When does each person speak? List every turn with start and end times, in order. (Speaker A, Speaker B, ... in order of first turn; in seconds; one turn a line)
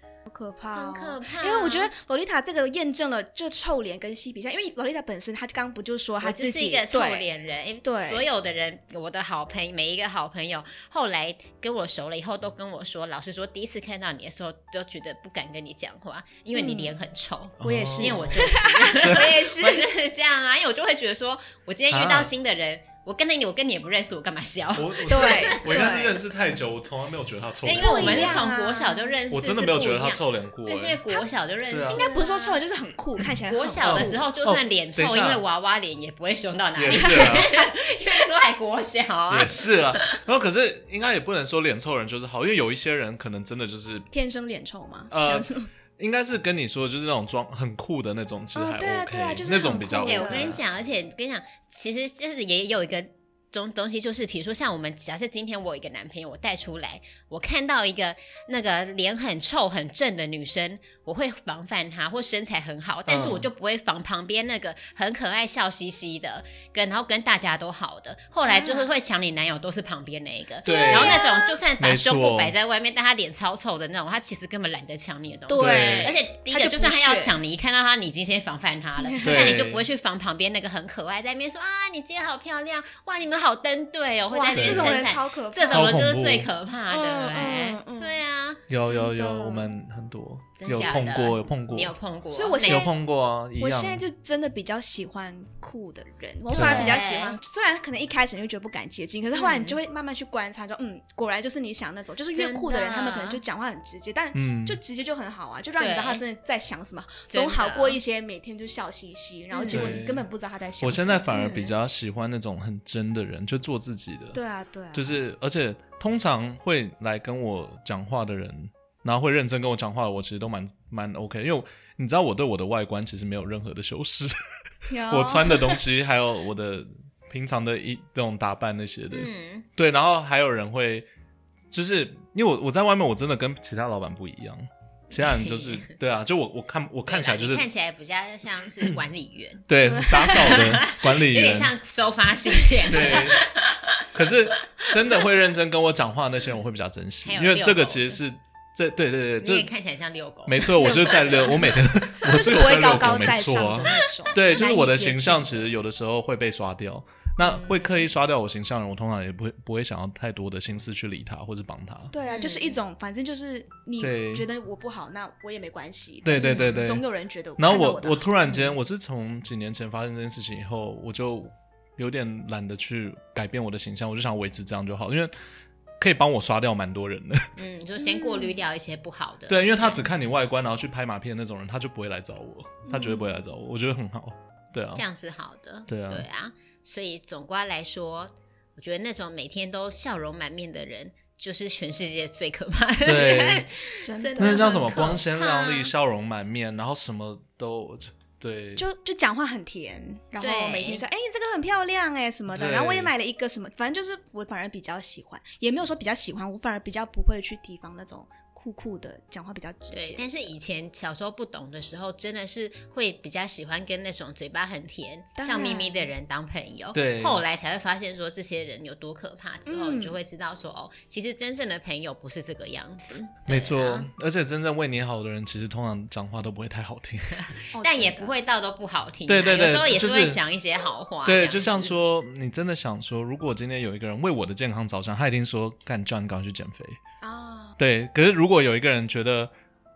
Speaker A: 0.2-7.2
Speaker B: 0.7-1.9
Speaker B: 6.2-25.9
Speaker A: 7.8-8.2
Speaker A: 16.5-16.9
Speaker C: 17.6-19.3
Speaker A: 17.6-19.9
Speaker C: 21.9-22.3
Speaker C: 24.8-28.5
Speaker A: 25.1-26.2
Speaker B: 27.6-32.6
Speaker A: 27.7-29.1
Speaker C: 29.3-31.0
Speaker C: 31.7-32.0
Speaker A: 31.9-34.2
Speaker B: 33.5-40.2
Speaker C: 33.8-35.4
Speaker C: 36.8-37.5
Speaker A: 36.9-37.6
Speaker C: 39.3-44.1
Speaker A: 44.1-45.7
Speaker C: 45.1-50.6
Speaker A: 48.5-50.6
Speaker B: 49.8-88.6
Speaker C: 63.1-63.5
Speaker A: 68.5-68.9
Speaker C: 70.6-71.2
Speaker A: 70.6-71.6
Speaker C: 71.8-72.5
Speaker A: 75.5-77.3
Speaker C: 75.5-76.1
Speaker A: 79.1-79.5
Speaker C: 79.2-79.8
Speaker A: 84.3-86.0
Speaker C: 84.5-85.0
Speaker C: 85.7-86.5
Speaker A: 86.9-88.2
Speaker C: 88.7-91.9
Speaker A: 88.8-89.7
Speaker B: 90.6-92.9
Speaker A: 92.3-92.9
Speaker C: 92.6-94.0
Speaker A: 93.6-111.3
Speaker B: 96.5-97.4
Speaker C: 96.5-97.0
Speaker B: 99.3-99.8
Speaker B: 102.3-103.4
Speaker C: 104.3-104.8
Speaker B: 105.8-106.2
Speaker B: 107.3-108.0
Speaker B: 109.5-110.0
Speaker C: 109.7-110.3
Speaker C: 110.8-114.4
Speaker B: 111.3-111.7
Speaker A: 114.3-115.1
Speaker C: 114.9-124.4
Speaker A: 124.9-125.8
Speaker C: 125.0-131.1
Speaker B: 129.1-129.7
Speaker C: 131.7-137.7
Speaker B: 135.2-135.9
Speaker B: 137.1-145.2
Speaker C: 139.7-141.7
Speaker A: 140.0-140.6
Speaker C: 142.9-143.4
Speaker C: 144.1-149.7
Speaker B: 147.2-148.2
Speaker B: 149.4-151.6
Speaker C: 150.4-162.1
Speaker A: 150.7-155.7
Speaker B: 157.4-157.9
Speaker A: 162.1-168.5
Speaker B: 162.3-162.8
Speaker C: 164.0-164.4
Speaker C: 166.2-167.0
Speaker B: 166.4-166.8
Speaker C: 167.6-175.3
Speaker C: 176.0-177.5
Speaker B: 177.6-180.1
Speaker A: 178.0-178.6
Speaker C: 179.5-185.0
Speaker A: 182.9-183.3
Speaker B: 184.9-195.9
Speaker C: 185.9-186.3
Speaker C: 193.0-193.7
Speaker A: 194.0-195.2
Speaker C: 194.4-198.8
Speaker A: 198.8-210.2
Speaker B: 200.4-201.0
Speaker C: 202.5-203.1
Speaker B: 209.9-224.1
Speaker A: 215.4-216.1
Speaker C: 216.9-217.4
Speaker A: 219.7-220.2
Speaker C: 223.5-227.5
Speaker B: 227.3-231.9
Speaker A: 227.7-228.3
Speaker C: 229.3-230.4
Speaker C: 231.2-237.0
Speaker A: 237.2-237.8
Speaker C: 237.8-239.5